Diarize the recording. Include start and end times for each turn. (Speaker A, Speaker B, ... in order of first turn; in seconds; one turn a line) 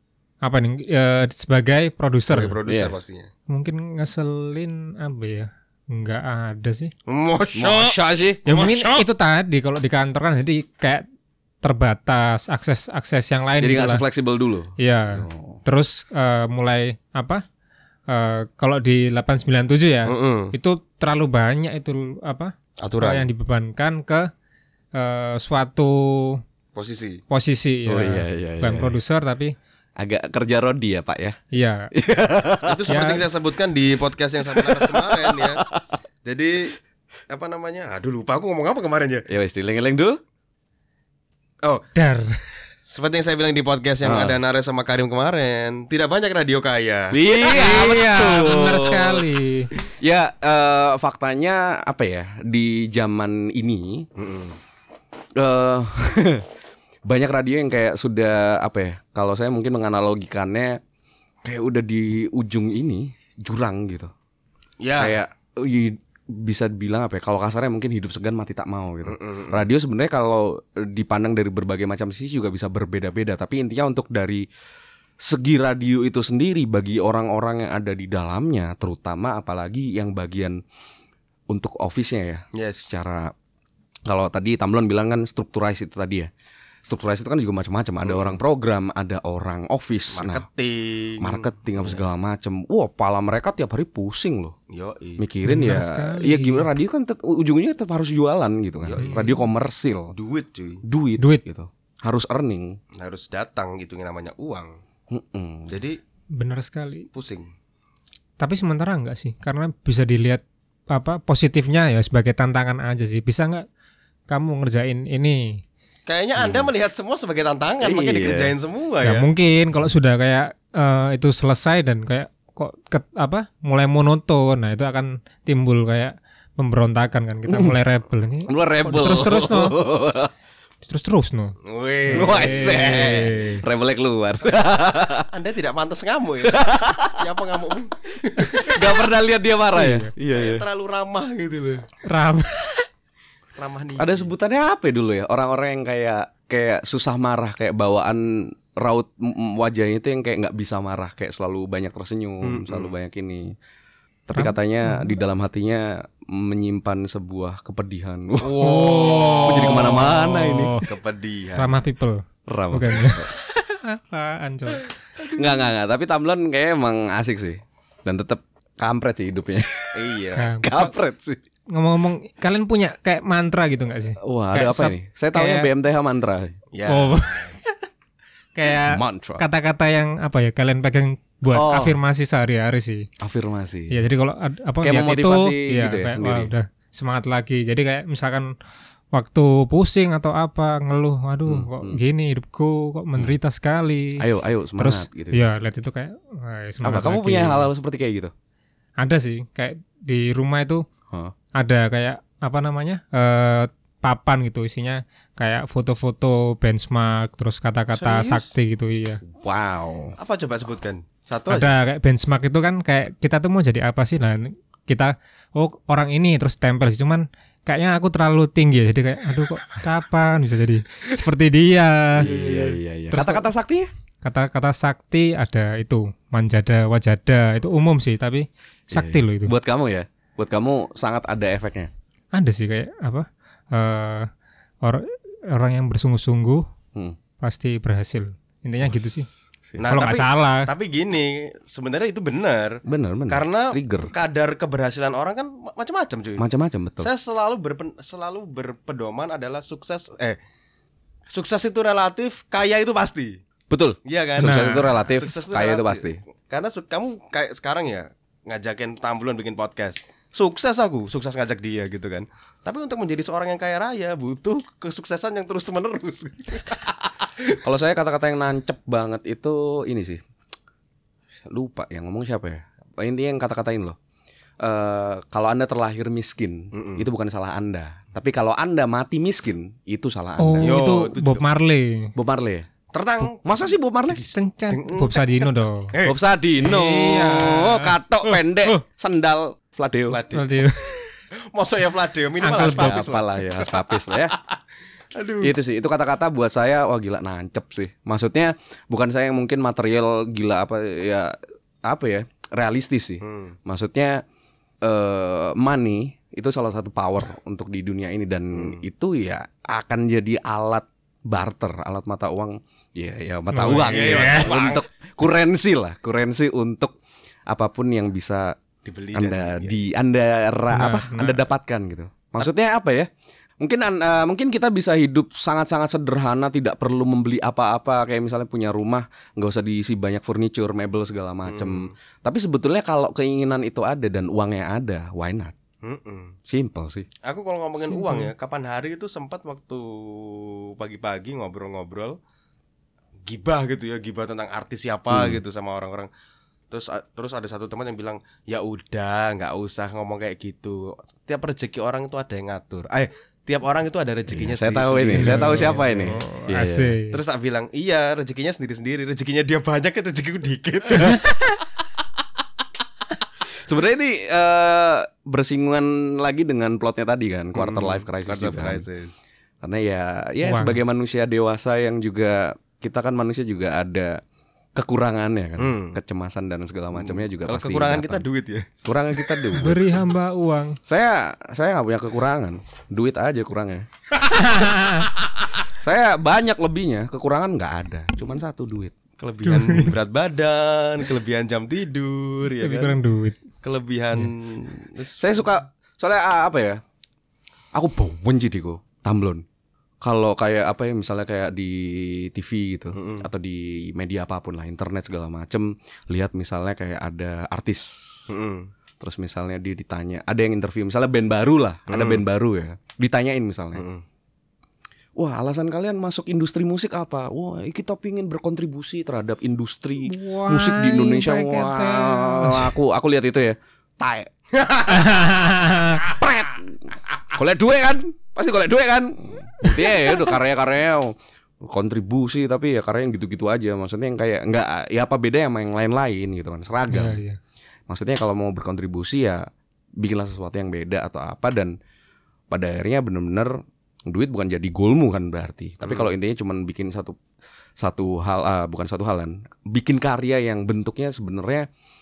Speaker A: 0.4-2.6
Speaker B: 2.3-3.3
Speaker C: 2.6-2.9
Speaker A: 3.5-6.9
Speaker B: 7.1-9.0
Speaker C: 7.5-8.4
Speaker A: 8.5-11.0
Speaker A: 11.6-14.0
Speaker C: 13.6-15.6
Speaker A: 14.8-17.4
Speaker A: 18.1-24.3
Speaker B: 20.1-20.5
Speaker B: 22.8-23.3
Speaker A: 24.9-26.4
Speaker B: 26.7-27.2
Speaker A: 27.3-29.5
Speaker C: 27.9-29.0
Speaker C: 30.0-31.4
Speaker A: 31.5-31.9
Speaker C: 31.9-32.8
Speaker B: 32.6-35.6
Speaker A: 32.9-33.3
Speaker C: 34.5-35.9
Speaker B: 36.2-36.8
Speaker B: 37.3-39.2
Speaker C: 39.3-40.2
Speaker B: 41.6-41.9
Speaker A: 42.0-42.4
Speaker B: 42.8-47.2
Speaker C: 44.0-44.4
Speaker C: 47.1-49.2
Speaker A: 47.4-49.7
Speaker C: 49.8-54.1
Speaker B: 54.1-54.6
Speaker C: 55.4-56.4
Speaker C: 57.0-60.8
Speaker C: 61.4-64.1
Speaker B: 64.8-65.2
Speaker C: 65.0-74.4
Speaker B: 69.0-69.7
Speaker C: 75.2-80.6
Speaker C: 81.5-83.3
Speaker B: 82.5-82.9
Speaker C: 84.1-86.3
Speaker C: 86.8-90.4
Speaker B: 88.0-88.4
Speaker B: 90.1-92.0
Speaker C: 91.2-94.5
Speaker B: 94.7-95.2
Speaker C: 95.2-100.1
Speaker A: 95.4-96.7
Speaker B: 98.8-99.4
Speaker A: 99.0-99.3
Speaker B: 100.1-100.8
Speaker C: 100.8-102.8
Speaker B: 102.9-104.8
Speaker C: 105.1-105.7
Speaker B: 105.7-106.0
Speaker A: 106.3-107.1
Speaker B: 107.1-107.5
Speaker A: 108.4-113.7
Speaker A: 114.3-115.6
Speaker B: 116.1-119.3
Speaker C: 116.4-116.7
Speaker C: 117.8-118.5
Speaker A: 119.0-129.8
Speaker C: 127.5-127.8
Speaker C: 128.4-130.3
Speaker A: 130.8-133.6
Speaker B: 131.6-133.2
Speaker C: 132.1-135.3
Speaker B: 135.3-138.8
Speaker C: 136.4-137.2
Speaker C: 138.5-140.6
Speaker A: 139.7-140.1
Speaker B: 140.3-141.8
Speaker A: 142.1-142.9
Speaker B: 143.6-144.3
Speaker C: 144.0-153.5
Speaker B: 152.4-152.9
Speaker C: 154.3-158.5
Speaker A: 154.3-155.2
Speaker B: 158.4-160.1
Speaker A: 158.6-160.9
Speaker C: 159.4-160.8
Speaker B: 160.8-161.8
Speaker A: 161.6-164.8
Speaker C: 162.5-163.3
Speaker B: 165.2-165.5
Speaker C: 165.3-170.0
Speaker B: 169.9-170.5
Speaker A: 170.4-170.9
Speaker C: 170.6-171.4
Speaker A: 171.7-175.7
Speaker C: 174.2-176.5
Speaker B: 176.7-177.6
Speaker A: 176.9-177.8
Speaker A: 178.5-183.1
Speaker C: 178.9-179.4
Speaker C: 181.5-182.0
Speaker C: 183.2-184.1
Speaker A: 183.9-188.5
Speaker C: 184.8-186.5
Speaker A: 189.1-194.2
Speaker C: 191.5-192.0
Speaker C: 194.2-195.4
Speaker A: 194.8-197.7
Speaker C: 196.8-198.3
Speaker A: 199.0-200.8
Speaker A: 201.6-209.2
Speaker B: 207.9-208.6
Speaker C: 209.2-210.2
Speaker B: 210.2-211.7
Speaker A: 211.5-222.3
Speaker C: 222.2-223.9
Speaker B: 222.2-222.8
Speaker A: 223.1-223.5
Speaker A: 224.2-229.5
Speaker C: 228.9-231.9
Speaker A: 232.3-234.3
Speaker A: 234.8-236.6
Speaker A: 237.4-239.3
Speaker C: 238.8-239.9
Speaker B: 239.8-246.4
Speaker A: 239.9-240.7
Speaker C: 242.8-244.1
Speaker C: 246.4-247.1
Speaker B: 247.0-250.4
Speaker B: 251.3-253.4
Speaker C: 253.7-256.2
Speaker B: 254.0-267.5
Speaker A: 254.4-254.9
Speaker C: 267.6-270.2
Speaker C: 271.4-274.0
Speaker C: 274.6-280.8
Speaker B: 276.7-277.1
Speaker A: 280.4-282.1
Speaker B: 280.6-281.5
Speaker C: 282.1-282.7
Speaker B: 282.9-286.2
Speaker C: 283.4-284.2
Speaker A: 284.3-285.9
Speaker C: 286.0-290.2
Speaker A: 286.6-288.8
Speaker B: 290.1-290.5
Speaker A: 290.3-291.1
Speaker B: 291.5-294.6
Speaker A: 292.4-293.0
Speaker C: 292.7-294.4
Speaker B: 295.1-295.5
Speaker C: 295.4-304.2
Speaker B: 303.2-303.5
Speaker C: 304.8-317.0
Speaker A: 313.5-314.5
Speaker B: 313.9-314.8
Speaker C: 317.5-318.6
Speaker B: 318.8-319.8
Speaker C: 319.1-323.1
Speaker A: 320.7-321.4
Speaker C: 323.6-335.5
Speaker B: 331.5-331.9
Speaker B: 335.8-336.3
Speaker C: 336.4-337.1
Speaker B: 337.2-342.2
Speaker A: 337.8-338.3
Speaker B: 343.2-346.1
Speaker C: 345.1-345.4
Speaker B: 346.7-356.3
Speaker C: 354.3-356.9
Speaker A: 355.1-357.2
Speaker B: 357.1-361.5
Speaker C: 363.6-368.8
Speaker B: 367.6-369.1
Speaker C: 369.6-374.2
Speaker A: 370.4-370.8
Speaker C: 374.7-378.2
Speaker B: 375.6-376.0
Speaker B: 376.9-379.8
Speaker C: 378.8-379.9
Speaker A: 379.6-380.8
Speaker C: 380.9-383.9
Speaker A: 384.3-385.1
Speaker C: 385.7-388.9
Speaker B: 389.2-393.0
Speaker A: 389.5-389.9
Speaker A: 392.6-393.4
Speaker B: 393.6-395.4
Speaker C: 395.2-396.8
Speaker C: 397.7-399.4
Speaker C: 400.0-408.3
Speaker B: 402.9-403.3
Speaker B: 408.3-408.7
Speaker C: 409.0-413.8
Speaker B: 411.9-412.2
Speaker B: 413.7-414.0
Speaker C: 415.2-424.3
Speaker A: 420.1-422.7
Speaker B: 424.5-425.5
Speaker A: 424.9-426.0
Speaker C: 426.1-426.7
Speaker C: 427.3-437.2
Speaker A: 436.9-437.4
Speaker C: 437.9-439.4
Speaker C: 440.0-441.8
Speaker C: 442.5-447.2
Speaker B: 445.8-446.1
Speaker C: 447.8-451.7